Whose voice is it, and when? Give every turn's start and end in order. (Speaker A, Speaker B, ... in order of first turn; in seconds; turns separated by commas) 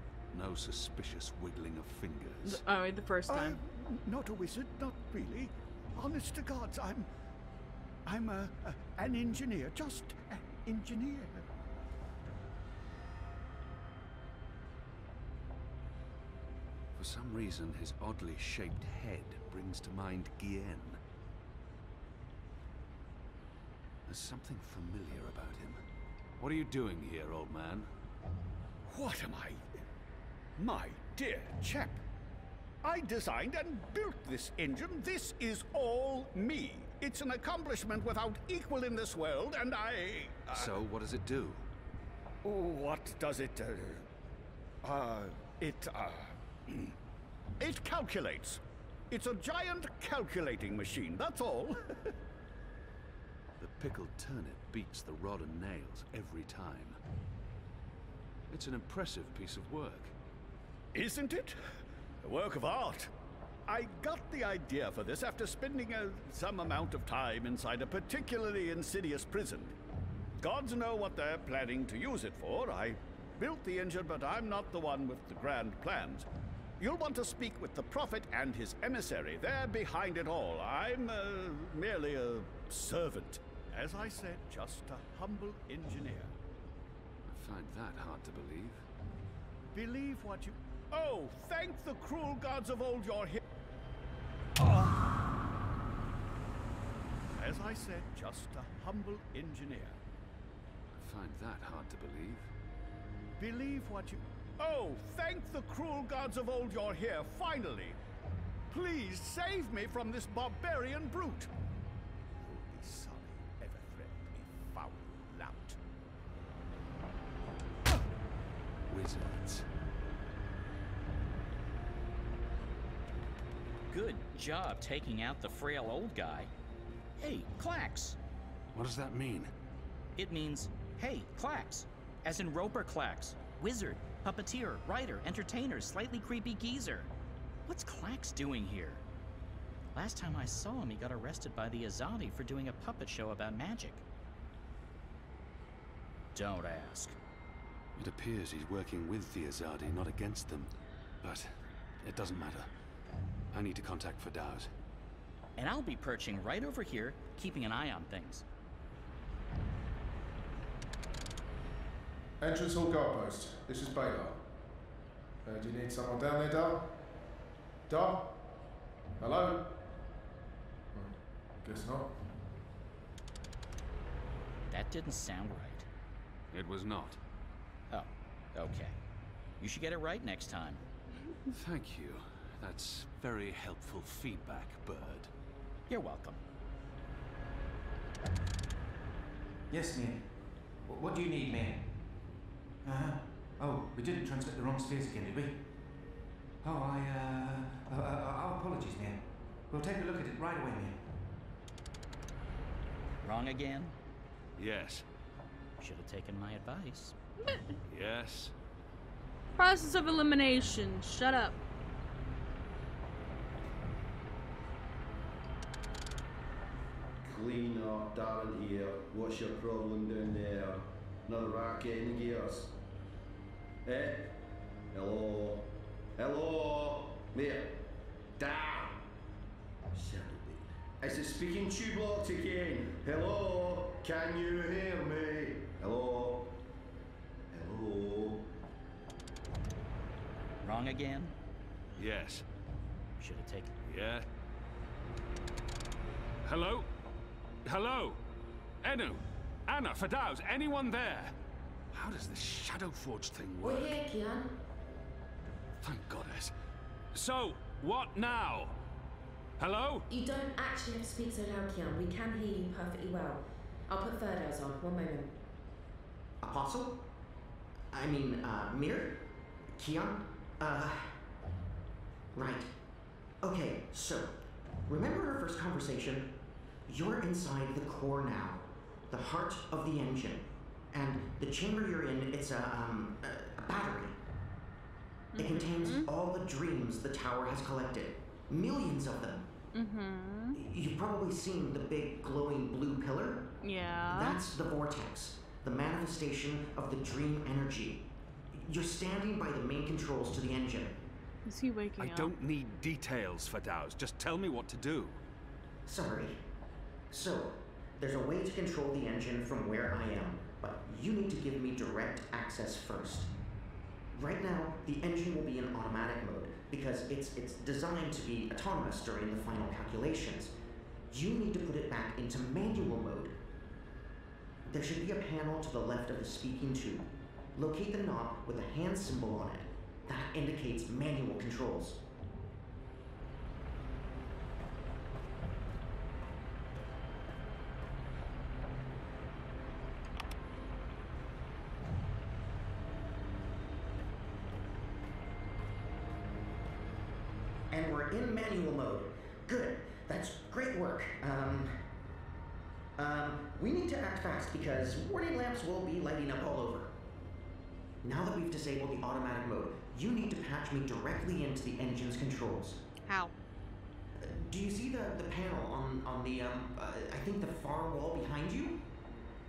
Speaker A: 0.3-2.6, Speaker B: 2.4-3.6, Speaker C: 3.3-7.1, Speaker C: 8.0-11.5, Speaker A: 16.9-21.0, Speaker A: 24.1-25.8, Speaker A: 26.4-27.9, Speaker C: 28.9-29.6, Speaker C: 30.6-32.0, Speaker C: 32.8-40.8, Speaker A: 40.5-41.6, Speaker C: 42.4-44.0, Speaker C: 44.8-46.9, Speaker C: 47.6-52.1, Speaker A: 53.6-57.0, Speaker A: 58.5-60.1, Speaker C: 60.9-61.6, Speaker C: 62.2-63.1, Speaker C: 63.7-69.8, Speaker C: 70.4-76.3, Speaker C: 76.8-86.3, Speaker A: 87.3-88.8, Speaker C: 89.7-93.4, Speaker C: 94.6-95.2, Speaker C: 97.3-100.0, Speaker A: 100.9-102.5, Speaker C: 103.4-108.0, Speaker C: 108.7-111.5, Speaker C: 112.4-115.8, Speaker A: 118.9-119.7, Speaker D: 123.9-126.5, Speaker D: 127.2-128.2, Speaker A: 128.7-129.5, Speaker D: 130.2-137.1, Speaker D: 137.7-139.0, Speaker D: 139.9-144.0, Speaker D: 146.3-147.2, Speaker A: 147.9-152.7, Speaker A: 153.5-154.7, Speaker D: 155.6-158.4, Speaker E: 162.4-164.4, Speaker E: 165.4-166.9, Speaker E: 167.9-168.4, Speaker E: 169.2-169.8, Speaker E: 170.9-172.2, Speaker D: 174.7-175.9, Speaker A: 176.5-177.2, Speaker D: 177.9-178.9, Speaker D: 179.6-180.8, Speaker A: 181.5-185.3, Speaker D: 185.9-186.4, Speaker F: 189.7-192.1, Speaker F: 192.8-195.7, Speaker F: 196.6-201.2, Speaker D: 203.2-203.9, Speaker A: 204.6-205.0, Speaker D: 205.8-207.1, Speaker A: 207.9-208.5, Speaker B: 209.5-211.6, Speaker G: 217.2-222.7, Speaker G: 223.8-224.3, Speaker G: 224.9-227.8, Speaker G: 228.4-229.0, Speaker G: 229.9-236.6, Speaker G: 237.5-238.5, Speaker D: 240.6-241.3, Speaker A: 241.9-242.4, Speaker D: 243.2-243.7, Speaker A: 243.8-244.2, Speaker A: 246.4-246.9, Speaker A: 247.6-248.2, Speaker A: 248.8-251.3, Speaker A: 251.9-254.0, Speaker H: 253.6-254.5, Speaker A: 255.8-256.5, Speaker A: 257.1-258.8, Speaker A: 259.6-260.1, Speaker H: 260.1-265.3, Speaker I: 266.4-267.0, Speaker I: 267.9-271.2, Speaker I: 272.3-272.7, Speaker I: 273.4-274.3, Speaker I: 274.9-276.3, Speaker I: 276.9-284.2, Speaker B: 285.3-286.1, Speaker I: 285.4-289.5, Speaker B: 289.7-290.6, Speaker I: 290.5-293.5, Speaker B: 293.6-294.4, Speaker I: 294.1-301.0, Speaker B: 301.4-302.3, Speaker A: 302.0-305.2, Speaker I: 305.9-306.4, Speaker I: 307.1-313.3, Speaker I: 314.1-320.5, Speaker I: 321.1-323.3, Speaker I: 324.7-332.0, Speaker I: 347.7-351.9, Speaker I: 352.9-356.9, Speaker I: 358.0-362.8, Speaker B: 363.0-363.3, Speaker I: 364.2-368.8